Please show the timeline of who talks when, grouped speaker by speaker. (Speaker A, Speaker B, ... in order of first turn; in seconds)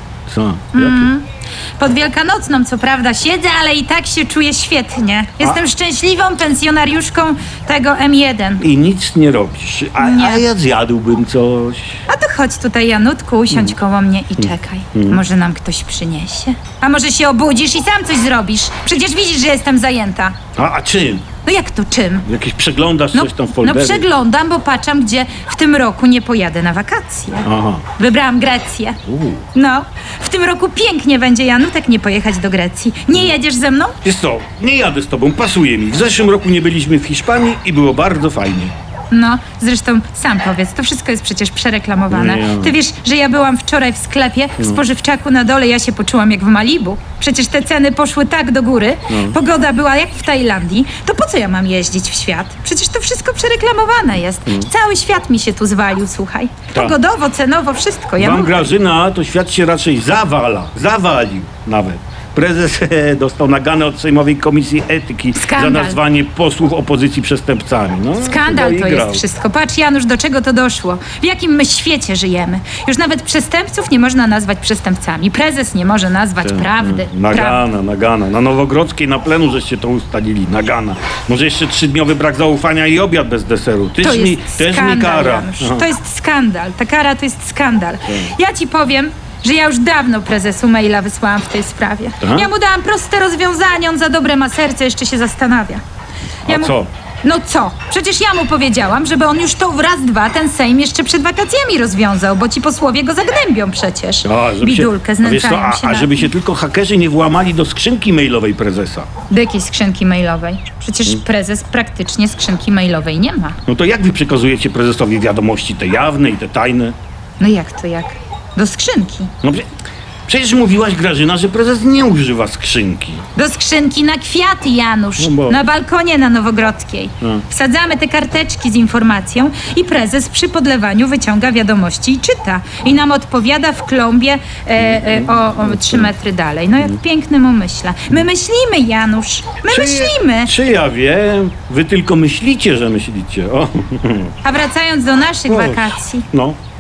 Speaker A: 0.3-1.1, 8.6-12.0, 14.4-15.2, 20.6-21.3, 22.2-24.1, 27.4-27.9, 29.1-29.4, 34.0-38.7, 42.1-42.8, 49.1-49.4, 58.2-69.2, 76.4-85.9, 88.1-88.3, 92.2-92.5, 96.5-96.9, 104.2-109.1, 113.7-117.0, 119.4-119.7, 120.3-123.2, 125.2-125.6, 134.8-136.1, 139.7-144.3, 145.5-146.6
Speaker B: 0.7-1.2, 1.8-8.7, 10.0-10.4, 12.1-20.4, 21.4-22.3, 23.1-29.0, 29.5-34.0, 39.1-58.7, 65.3-66.0, 68.2-77.6, 84.0-95.8, 96.5-106.3, 109.3-113.6, 117.4-119.3, 123.3-140.5, 144.4-146.3